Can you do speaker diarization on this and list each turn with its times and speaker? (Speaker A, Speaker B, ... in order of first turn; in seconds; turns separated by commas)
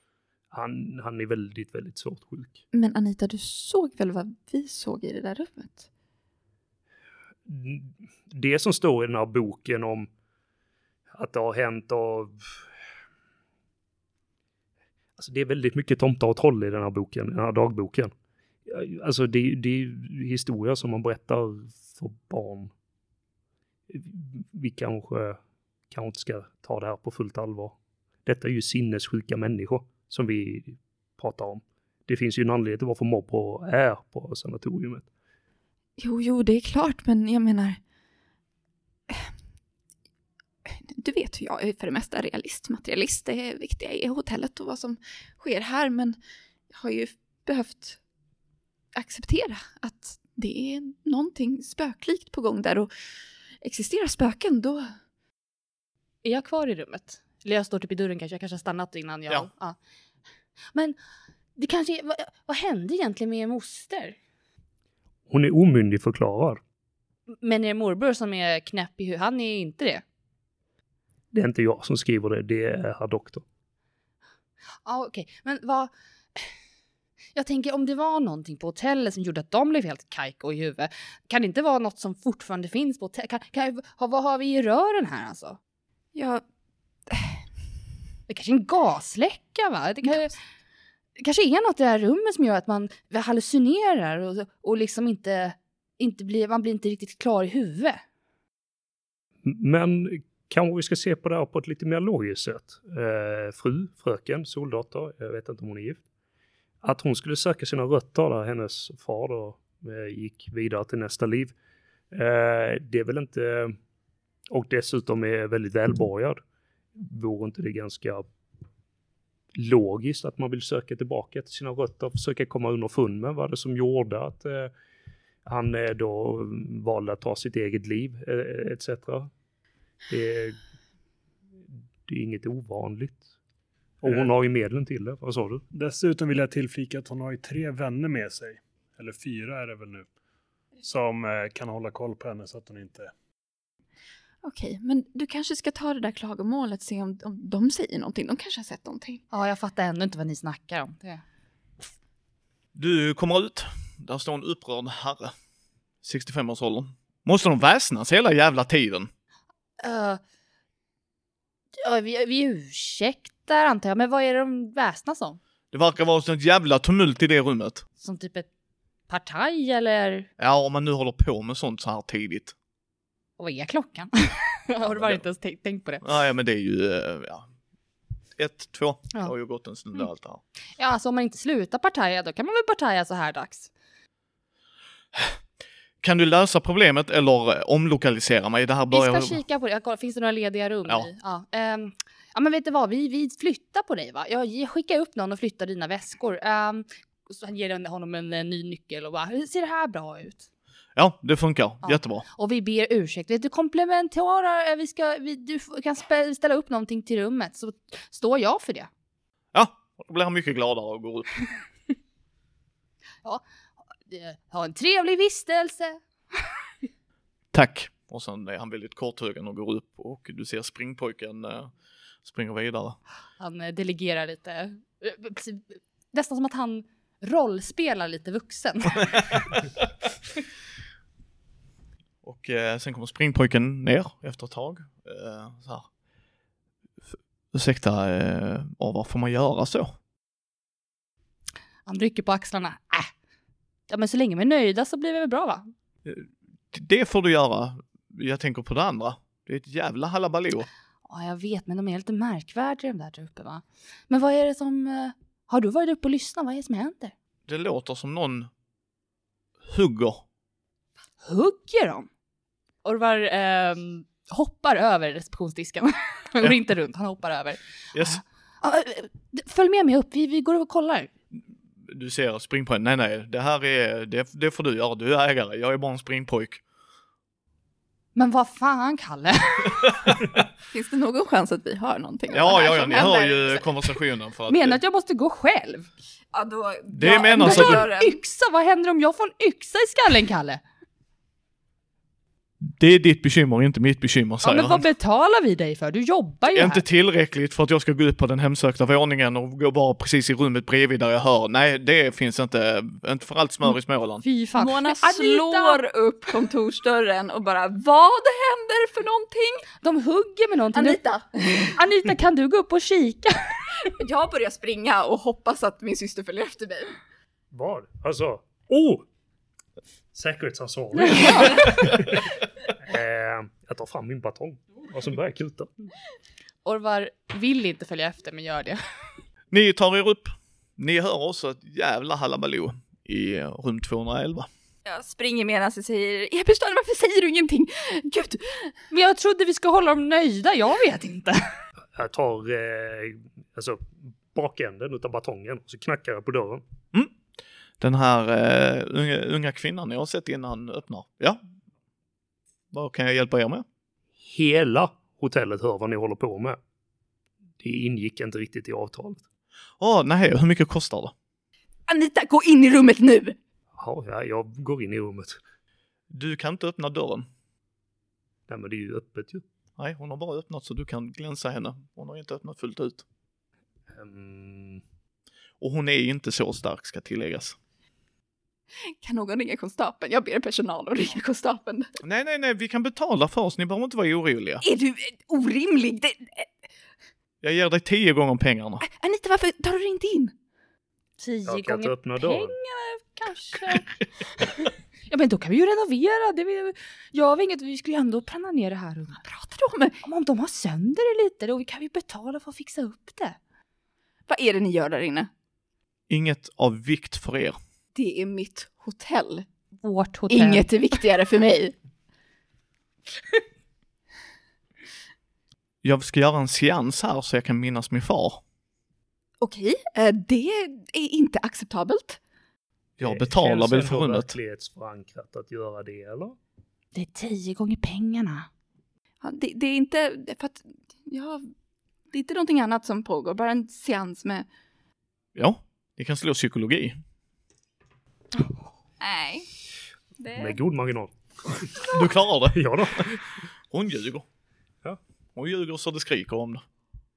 Speaker A: 0.5-2.6, Speaker B: 2.7-5.9, Speaker A: 7.5-10.1, Speaker A: 11.1-12.7, Speaker A: 15.2-18.1, Speaker A: 18.6-22.7, Speaker A: 23.9-25.4, Speaker A: 25.9-35.0, Speaker B: 36.0-37.8, Speaker B: 40.6-46.2, Speaker B: 46.7-48.0, Speaker B: 48.9-52.9, Speaker B: 53.6-54.9, Speaker C: 56.2-59.8, Speaker C: 61.6-64.2, Speaker A: 65.3-66.6, Speaker C: 67.4-70.0, Speaker A: 71.3-73.4, Speaker C: 74.8-76.5, Speaker C: 77.3-85.6, Speaker B: 86.1-86.4, Speaker B: 87.1-87.4, Speaker C: 88.3-90.3, Speaker B: 90.0-90.3, Speaker C: 91.2-98.0, Speaker A: 99.4-106.0, Speaker A: 106.8-111.5, Speaker A: 112.1-113.8, Speaker A: 114.5-116.4, Speaker A: 116.9-118.2, Speaker A: 119.5-124.7, Speaker A: 125.5-129.3, Speaker A: 130.1-130.6, Speaker A: 132.1-133.2, Speaker A: 134.0-135.6, Speaker D: 135.7-140.1, Speaker D: 140.8-143.1, Speaker B: 144.4-149.2, Speaker C: 149.3-151.2, Speaker E: 152.7-155.3, Speaker E: 156.0-159.1, Speaker C: 159.8-160.2, Speaker C: 161.8-165.4, Speaker E: 165.7-167.8, Speaker C: 168.0-168.5, Speaker C: 169.1-170.3, Speaker E: 170.4-172.5, Speaker C: 173.4-176.0, Speaker E: 174.8-175.2, Speaker E: 176.0-177.5, Speaker E: 178.3-180.4, Speaker C: 180.8-183.7, Speaker E: 185.1-185.4, Speaker E: 186.0-189.4, Speaker C: 188.9-200.5, Speaker E: 200.9-202.2, Speaker C: 201.8-208.9, Speaker E: 209.5-211.3, Speaker C: 214.1-216.0, Speaker E: 217.5-221.7, Speaker E: 222.2-223.0, Speaker C: 223.4-229.1, Speaker E: 232.2-235.9, Speaker E: 237.1-239.9, Speaker C: 241.8-243.1, Speaker C: 243.9-245.7, Speaker E: 246.0-250.7, Speaker C: 251.1-257.1, Speaker E: 257.5-258.5, Speaker E: 259.6-260.2, Speaker C: 261.2-262.1, Speaker C: 262.8-271.1, Speaker E: 267.9-268.2, Speaker E: 271.3-276.6, Speaker C: 278.1-279.9, Speaker E: 279.8-280.4, Speaker B: 280.7-283.6, Speaker E: 282.3-284.8, Speaker C: 284.5-285.9, Speaker B: 286.3-288.2, Speaker E: 286.9-287.8, Speaker C: 287.3-290.6, Speaker E: 292.6-294.9, Speaker C: 294.4-296.8, Speaker E: 296.5-304.2, Speaker C: 304.2-305.8, Speaker B: 304.5-309.6, Speaker C: 309.8-313.9, Speaker B: 310.7-311.7, Speaker B: 313.9-316.9, Speaker A: 317.5-319.0, Speaker A: 320.1-322.2, Speaker B: 321.2-321.6, Speaker E: 321.8-322.1, Speaker A: 322.8-325.7, Speaker C: 326.6-328.8, Speaker E: 329.5-334.5, Speaker B: 334.8-338.7, Speaker C: 338.9-341.4, Speaker A: 341.9-346.6, Speaker E: 347.8-351.4, Speaker E: 352.7-353.6, Speaker A: 354.2-356.6, Speaker A: 357.6-359.2, Speaker E: 359.8-361.1, Speaker B: 361.9-363.4, Speaker A: 363.8-365.4, Speaker E: 366.1-367.3, Speaker A: 368.5-369.4, Speaker E: 369.8-373.0, Speaker A: 373.9-374.8, Speaker E: 375.6-377.6, Speaker B: 378.8-381.9, Speaker E: 382.0-384.6, Speaker B: 384.6-386.6, Speaker E: 387.4-388.8, Speaker B: 388.8-390.3, Speaker C: 391.2-393.8, Speaker A: 391.4-392.5, Speaker C: 395.1-399.2, Speaker B: 399.2-400.0, Speaker C: 400.0-403.4, Speaker B: 404.3-405.3, Speaker E: 406.1-407.6, Speaker B: 407.9-409.4, Speaker C: 409.8-410.7, Speaker B: 410.3-411.7, Speaker E: 415.8-418.4, Speaker B: 419.4-422.2, Speaker E: 423.0-424.3, Speaker A: 423.0-426.4, Speaker C: 426.9-428.5, Speaker B: 429.2-431.4, Speaker B: 432.1-434.5, Speaker E: 435.3-437.0, Speaker B: 439.0-439.5, Speaker B: 440.2-440.6, Speaker A: 440.3-442.0, Speaker E: 441.9-444.2, Speaker A: 442.5-443.3, Speaker E: 445.3-446.6